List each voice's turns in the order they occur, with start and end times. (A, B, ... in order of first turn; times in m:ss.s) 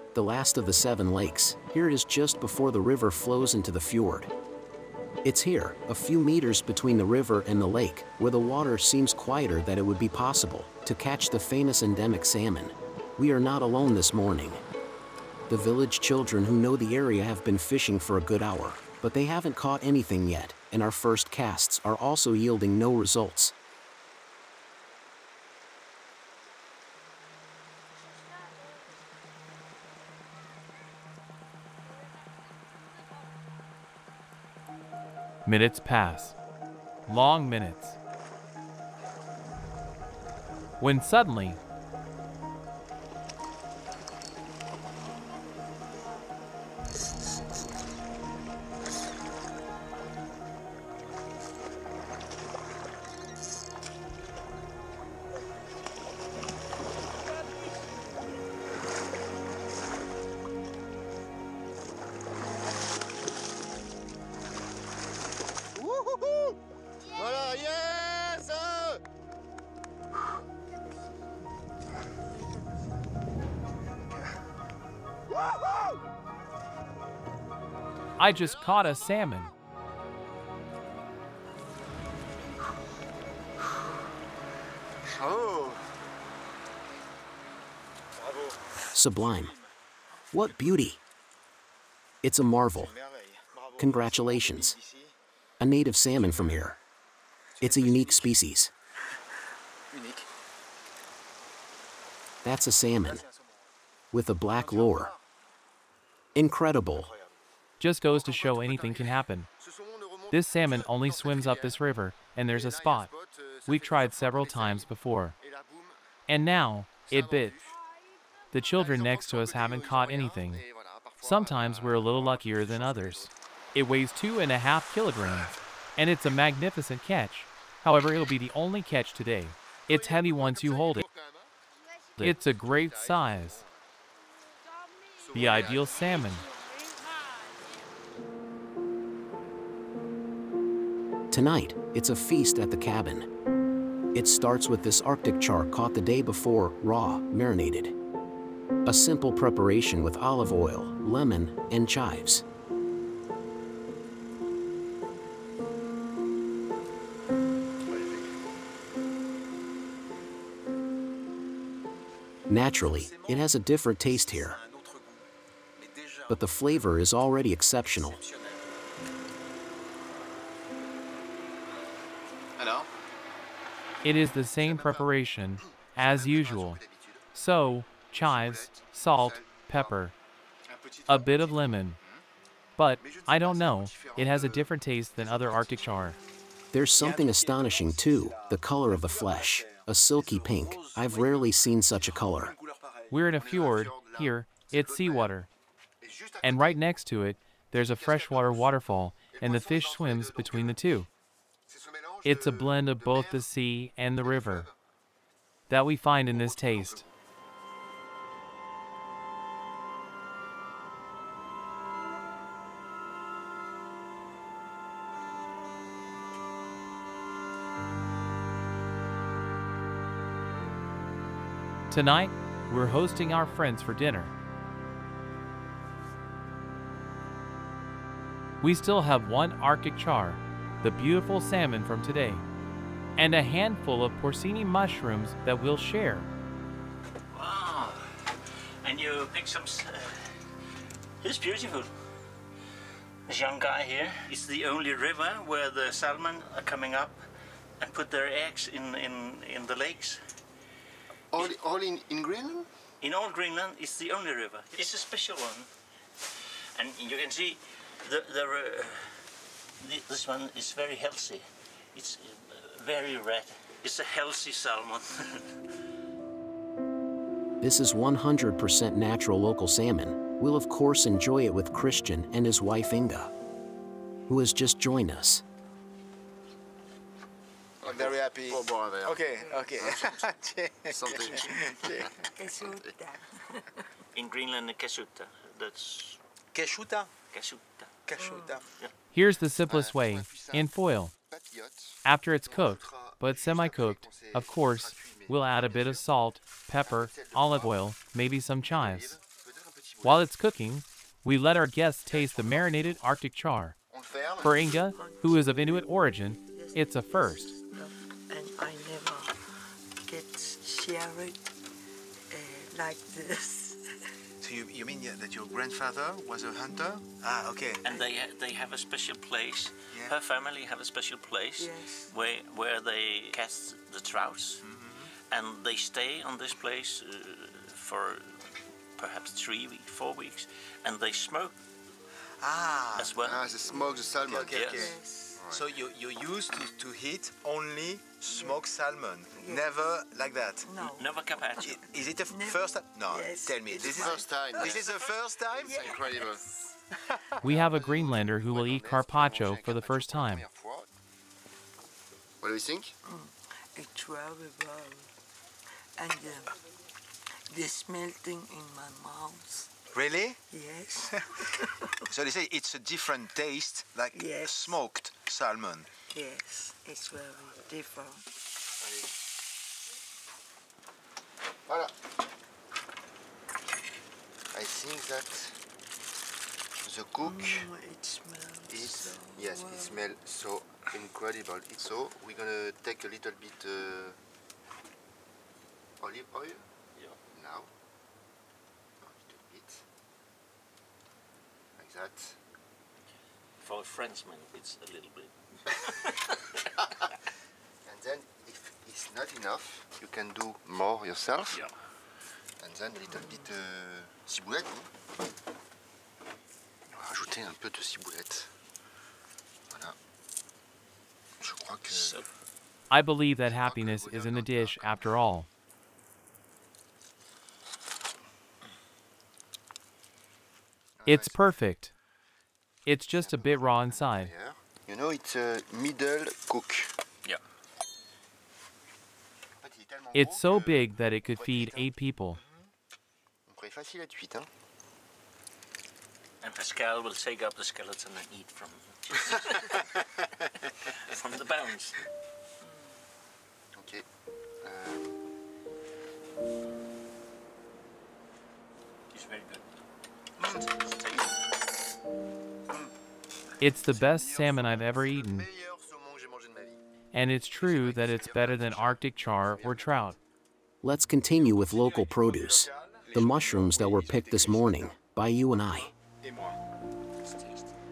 0:00.1-0:04.3 A
0:05.2-0:14.6 A
0:15.5-0:23.5 A
0:35.4-0:36.4 B
0:37.1-0:38.0 B
0:40.8-0:41.6 B
1:05.8-1:06.5 C
1:07.1-1:09.0 C
1:18.2-1:19.5 B
1:25.2-1:25.8 C
1:28.2-1:28.5 D
1:28.9-1:29.5 A
1:30.3-1:31.0 A
1:32.2-1:32.9 A
1:32.8-1:35.1 D
1:33.8-1:34.8 A
1:35.6-1:36.8 A
1:37.6-1:38.3 D
1:37.6-1:38.7 A
1:39.9-1:40.2 D
1:42.4-1:43.2 A
1:43.0-1:43.4 D
1:44.1-1:45.1 A
1:46.3-1:47.1 A
1:47.0-1:47.3 D
1:47.8-1:49.5 B
1:48.4-1:48.9 C
1:49.6-1:51.8 C
1:50.3-1:53.1 B
1:52.5-1:56.0 C
1:53.7-1:55.3 B
1:56.3-1:57.6 B
1:57.1-1:57.8 C
1:58.5-2:00.6 B
1:58.7-2:03.3 C
2:01.2-2:11.0 B
2:09.9-2:11.5 C
2:12.2-2:13.6 B
2:12.2-2:13.8 C
2:15.2-2:16.1 C
2:15.3-2:16.4 B
2:21.3-2:23.3 A
2:24.1-2:27.9 A
2:28.8-2:32.4 A
2:37.9-2:38.2 D
2:42.5-2:44.6 A
2:42.8-2:43.5 D
2:44.0-2:45.2 D
2:45.8-2:46.4 D
2:46.3-2:48.2 A
2:48.0-2:48.6 D
2:52.6-2:52.9 D
2:54.0-2:56.8 B
2:54.5-2:55.1 C
2:56.0-2:57.2 C
2:57.3-3:00.1 B
2:58.2-2:59.9 C
3:00.7-3:01.5 D
3:01.1-3:02.0 B
3:02.8-3:06.2 B
3:03.0-3:04.5 C
3:06.7-3:12.5 A
3:06.9-3:11.5 D
3:12.1-3:13.1 D
3:13.1-3:15.5 B
3:13.2-3:15.3 C
3:16.0-3:16.9 C
3:16.4-3:21.1 B
3:18.0-3:20.8 C
3:21.7-3:23.4 C
3:22.2-3:24.7 B
3:24.2-3:24.7 C
3:25.7-3:27.0 B
3:26.3-3:27.1 C
3:41.9-3:44.3 B
3:48.6-3:52.4 B
3:53.2-3:56.3 B
3:57.3-3:58.2 E
3:58.8-4:00.3 E
4:01.2-4:01.9 E
4:03.3-4:07.2 E
4:07.8-4:10.2 E
4:11.3-4:12.7 C
4:13.0-4:15.7 E
4:16.7-4:19.2 E
4:19.8-4:25.5 E
4:27.6-4:33.3 A
4:34.3-4:35.4 A
4:37.8-4:40.3 C
4:37.8-4:42.1 D
4:39.4-4:39.7 F
4:40.9-4:42.8 C
4:42.4-4:43.8 F
4:44.1-4:46.2 E
4:46.5-4:47.1 D
4:47.3-4:48.0 E
4:48.0-4:48.7 D
4:48.1-4:48.6 F
4:49.1-4:51.1 B
4:49.6-4:50.7 C
4:51.2-4:56.1 C
4:52.0-4:59.2 B
4:56.9-4:57.8 C
4:58.6-5:00.3 C
5:00.0-5:03.8 B
5:02.1-5:03.0 C
5:03.9-5:04.8 C
5:04.4-5:07.6 B
5:04.9-5:05.5 F
5:06.5-5:11.4 F
5:12.3-5:14.0 F
5:14.4-5:17.8 D
5:17.8-5:24.6 E
5:21.6-5:22.1 F
5:24.6-5:25.1 D
5:25.3-5:28.4 E
5:29.0-5:31.6 E
5:32.4-5:33.2 D
5:33.0-5:33.5 E
5:33.2-5:34.8 C
5:33.7-5:34.0 F
5:34.2-5:35.0 D
5:34.5-5:34.9 E
5:34.7-5:35.5 F
5:35.4-5:35.7 C
5:35.5-5:40.8 D
5:38.3-5:38.6 F
5:39.3-5:40.0 F
5:40.6-5:41.6 F
5:40.8-5:41.9 E
5:41.6-5:46.0 D
5:42.2-5:46.7 F
5:43.8-5:45.0 C
5:45.6-5:46.4 C
5:47.4-5:50.4 B
5:47.4-5:50.9 C
5:52.4-5:52.9 C
5:53.1-5:55.1 F
5:56.0-5:56.6 F
5:57.5-5:59.7 F
5:59.9-6:00.4 D
6:00.5-6:02.0 F
6:02.0-6:05.9 D
6:04.1-6:04.7 F
6:06.1-6:08.2 F
6:08.8-6:09.1 C
6:11.7-6:11.9 C
6:14.5-6:15.6 C
6:16.8-6:17.7 C
6:17.2-6:20.0 F
6:18.7-6:24.2 C
6:26.0-6:26.7 C
6:27.3-6:27.7 C
6:29.0-6:29.8 C
6:31.8-6:32.4 C
6:33.6-6:35.9 E
6:37.8-6:41.7 C
6:42.6-6:44.9 C
6:46.9-6:48.5 C
6:49.7-6:50.0 C
6:51.4-6:52.2 C
6:51.9-6:52.2 E
6:52.9-6:55.5 B
6:53.5-6:55.1 C
7:01.0-7:01.4 C
7:01.0-7:01.9 B
7:02.8-7:04.3 B
7:03.1-7:07.0 C
7:09.6-7:11.9 C
7:10.1-7:12.4 B
7:13.5-7:14.5 C
7:16.4-7:19.8 E
7:20.8-7:22.0 E
7:23.7-7:24.0 C
7:24.6-7:25.2 C
7:29.1-7:29.6 E
7:30.4-7:31.3 E
7:33.6-7:35.5 B
7:33.9-7:36.8 C
7:37.1-7:40.2 B
7:37.6-7:39.0 C
7:39.6-7:39.9 C
7:40.8-7:45.9 A
7:42.0-7:44.9 D
7:46.2-7:46.6 D